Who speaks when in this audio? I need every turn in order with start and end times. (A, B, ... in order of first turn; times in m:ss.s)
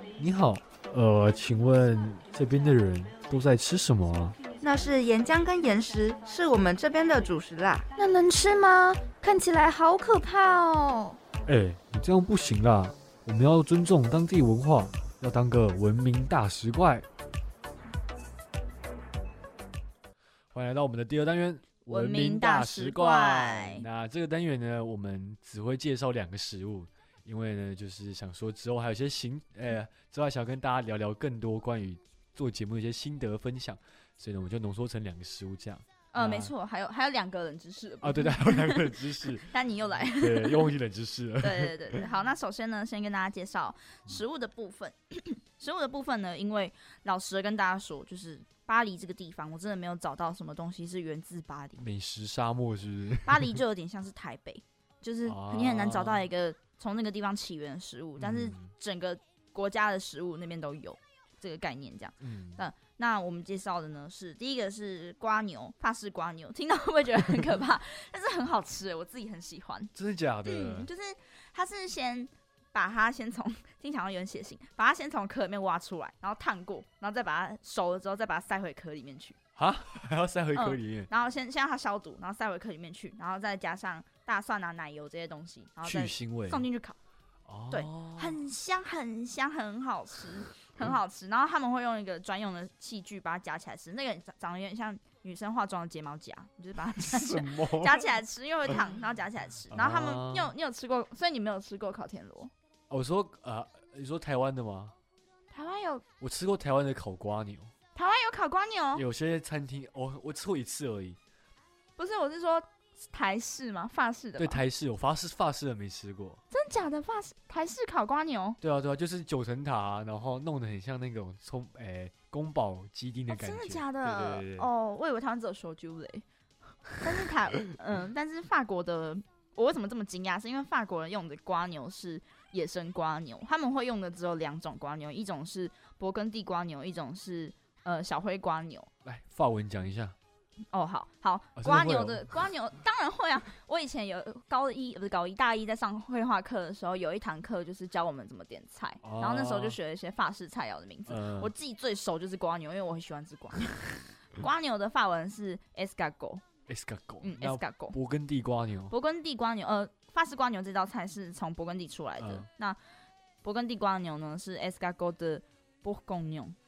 0:00.2-0:04.4 A
0:04.6-0:07.8 B
0:08.0-0:11.2 C
0:11.4-0:17.0 A
0:20.5-0:36.5 A
0:21.9-0:23.8 D
0:36.1-0:40.7 D
0:38.0-0:39.5 A
0:40.1-0:42.0 A
0:41.4-0:51.8 D
0:51.8-0:53.6 A
0:53.2-1:09.9 D
0:55.2-0:56.3 A
0:58.2-0:58.7 A
1:02.2-1:02.6 A
1:09.9-1:10.9 A
1:10.4-1:19.4 D
1:19.6-1:21.1 A
1:20.5-1:27.0 D
1:25.8-1:26.7 A
1:27.4-1:28.4 A
1:27.7-1:42.5 D
1:37.0-1:38.1 A
1:39.7-1:40.5 A
1:42.9-1:44.9 A
1:45.5-1:46.0 D
1:46.2-1:47.7 A
1:47.9-1:49.0 D
1:48.9-1:51.2 A
1:52.0-1:54.6 D
1:54.4-1:56.4 A
1:56.5-1:58.6 D
1:58.6-2:04.7 A
2:03.3-2:06.2 D
2:07.0-2:18.9 D
2:19.0-2:20.2 A
2:20.7-2:36.4 D
2:21.6-2:22.3 A
2:29.0-2:29.8 A
2:31.0-2:31.5 A
2:36.7-2:38.9 A
2:37.2-2:38.0 D
2:38.9-2:42.8 D
2:42.2-2:42.5 A
2:43.4-2:46.6 D